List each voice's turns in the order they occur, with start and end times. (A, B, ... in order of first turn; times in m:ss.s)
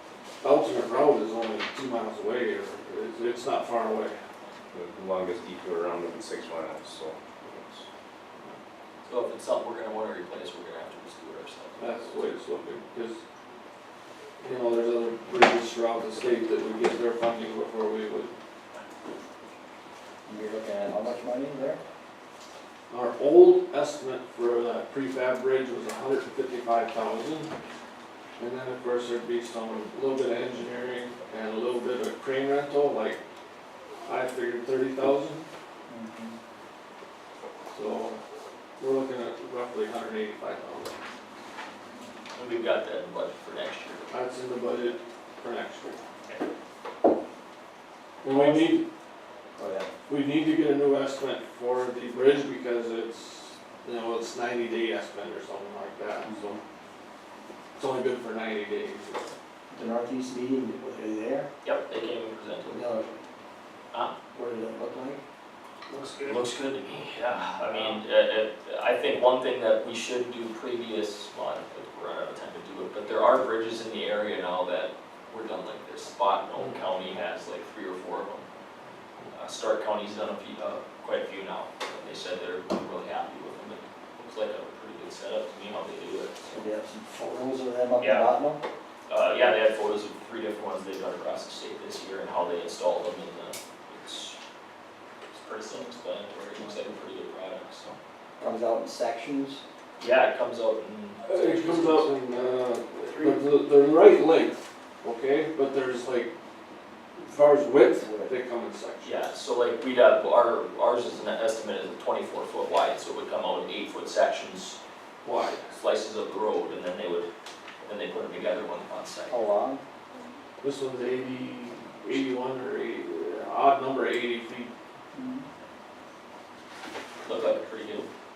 0:00.4-0:04.2 A
0:04.7-0:07.8 B
0:09.0-0:12.3 C
0:11.8-0:13.2 A
0:14.4-0:18.3 A
0:20.2-0:21.8 D
0:22.9-0:27.5 A
0:28.4-0:33.2 A
0:34.0-0:35.4 A
0:35.9-0:36.4 D
0:37.7-0:38.2 A
0:38.8-0:40.9 A
0:42.3-0:44.1 C
0:44.1-0:46.0 A
0:48.2-0:48.9 A
0:48.3-0:48.8 C
0:49.6-0:49.9 D
0:50.1-0:56.6 A
0:56.3-0:56.5 D
0:57.8-0:59.2 A
0:59.7-1:01.5 D
1:01.6-1:02.9 C
1:02.7-1:03.1 D
1:04.3-1:05.2 D
1:06.2-1:18.4 C
1:19.3-1:26.6 C
1:26.5-1:28.6 D
1:28.0-1:28.3 C
1:29.1-1:34.4 C
1:35.3-1:38.0 C
1:38.4-1:39.6 D
1:40.0-1:42.1 C
1:41.2-1:46.3 A
1:43.0-1:43.4 C
1:47.2-1:49.3 A
1:48.0-1:48.3 D
1:49.0-1:54.8 C
1:55.2-1:55.7 A
1:55.7-1:57.3 C
1:57.8-1:59.4 C
1:59.3-1:59.8 D
2:00.6-2:04.7 A
2:05.1-2:05.5 D
2:07.2-2:08.1 C